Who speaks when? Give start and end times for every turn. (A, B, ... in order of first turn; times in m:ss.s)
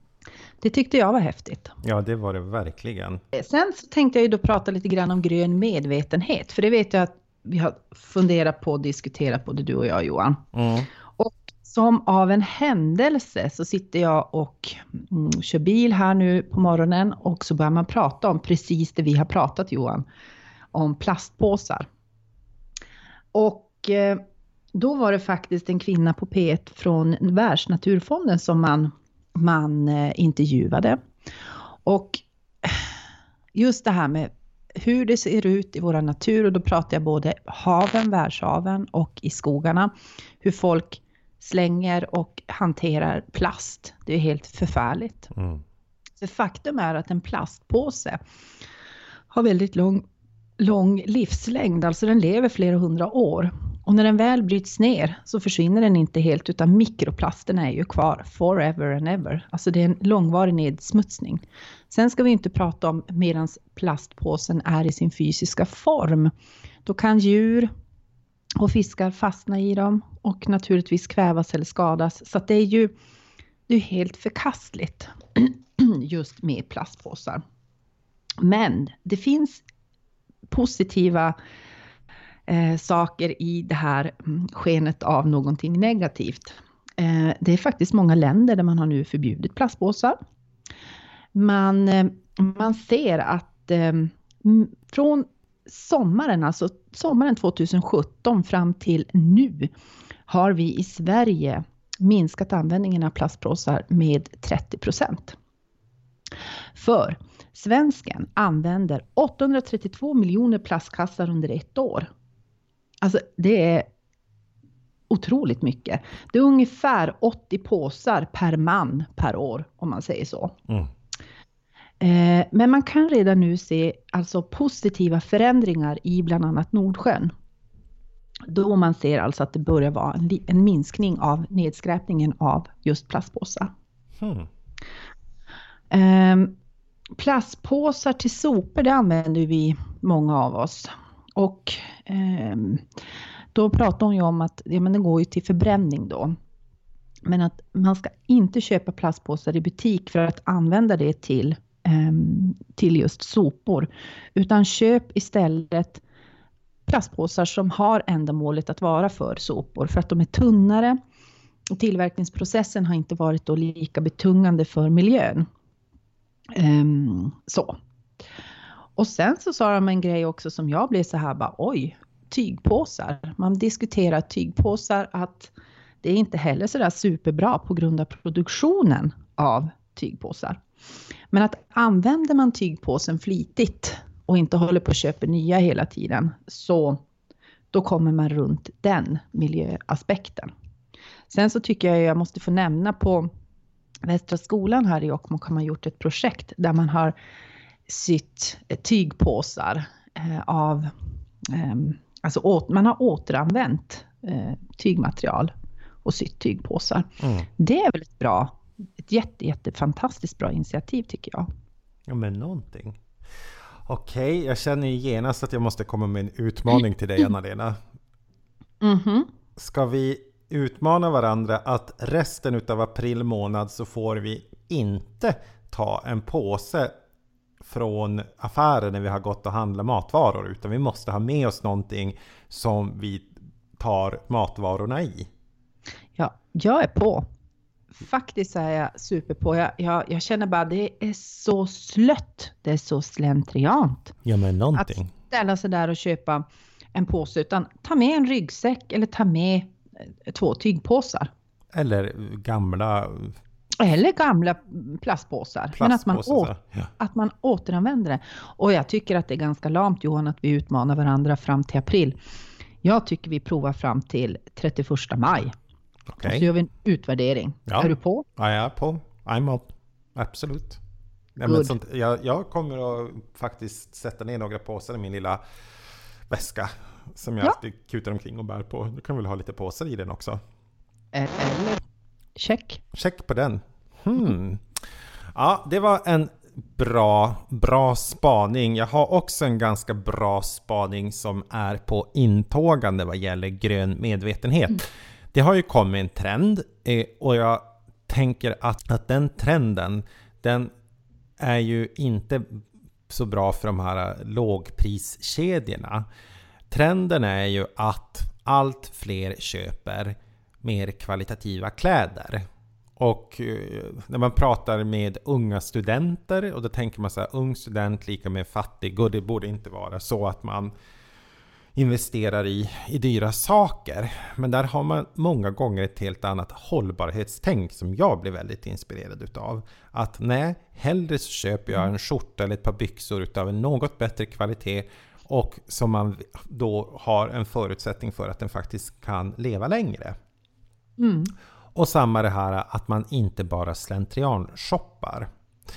0:00.6-0:01.8 A
0:01.8-0:03.2 B
0:03.3-0:10.4 A
0:10.5-0:10.9 B
0:11.2-0:20.1 A
0:20.7-0:21.9 A
0:23.3-0:24.2 A
0:24.7-0:31.0 A
0:31.8-0:32.9 A
0:33.5-0:45.3 A
0:45.3-0:45.6 B
0:46.2-0:48.2 A
0:49.3-0:50.1 A
0:50.6-1:06.3 A
1:06.8-1:07.7 A
1:08.6-1:12.9 A
1:13.7-1:17.4 A
1:18.4-1:19.6 A
1:20.5-1:21.4 A
1:22.5-1:30.2 A
1:31.3-1:39.7 A
1:40.3-1:45.4 A
1:46.8-1:52.1 A
1:53.0-1:53.9 A
1:55.1-2:00.6 A
2:02.0-2:07.3 A
2:08.5-2:13.7 A
2:14.2-2:14.5 B
2:15.9-2:16.6 A
2:17.2-2:22.8 A
2:23.5-2:26.4 A
2:27.2-2:36.0 A
2:36.9-2:41.0 A
2:41.7-2:45.5 A
2:46.5-2:47.8 A
2:49.0-3:00.6 A
3:01.3-3:07.0 A
3:07.7-3:10.5 A
3:11.3-3:13.3 A
3:14.0-3:17.2 A
3:17.9-3:20.9 A
3:21.4-3:25.5 A
3:26.0-3:31.5 A
3:27.2-3:27.5 B
3:32.1-3:33.0 B
3:33.9-3:37.8 B
3:38.8-3:39.3 A
3:39.6-3:46.9 B
3:47.6-3:55.3 B
3:56.2-3:57.3 A
3:58.0-4:04.2 A
4:04.2-4:05.1 B
4:04.8-4:11.3 A
4:11.7-4:13.4 B
4:13.8-4:22.2 A
4:15.8-4:16.9 B
4:22.8-4:25.5 A
4:26.1-4:26.5 B
4:26.2-4:28.3 A
4:27.7-4:30.8 B
4:31.4-4:35.4 B
4:31.4-4:31.8 A
4:36.3-4:40.4 B
4:41.1-4:41.8 A
4:42.4-4:42.8 A
4:42.9-4:44.6 B
4:45.3-5:00.7 B
5:01.4-5:06.1 B
5:06.7-5:12.4 B
5:13.0-5:20.7 B
5:21.8-5:40.2 B
5:41.0-5:41.3 A
5:41.8-5:45.3 B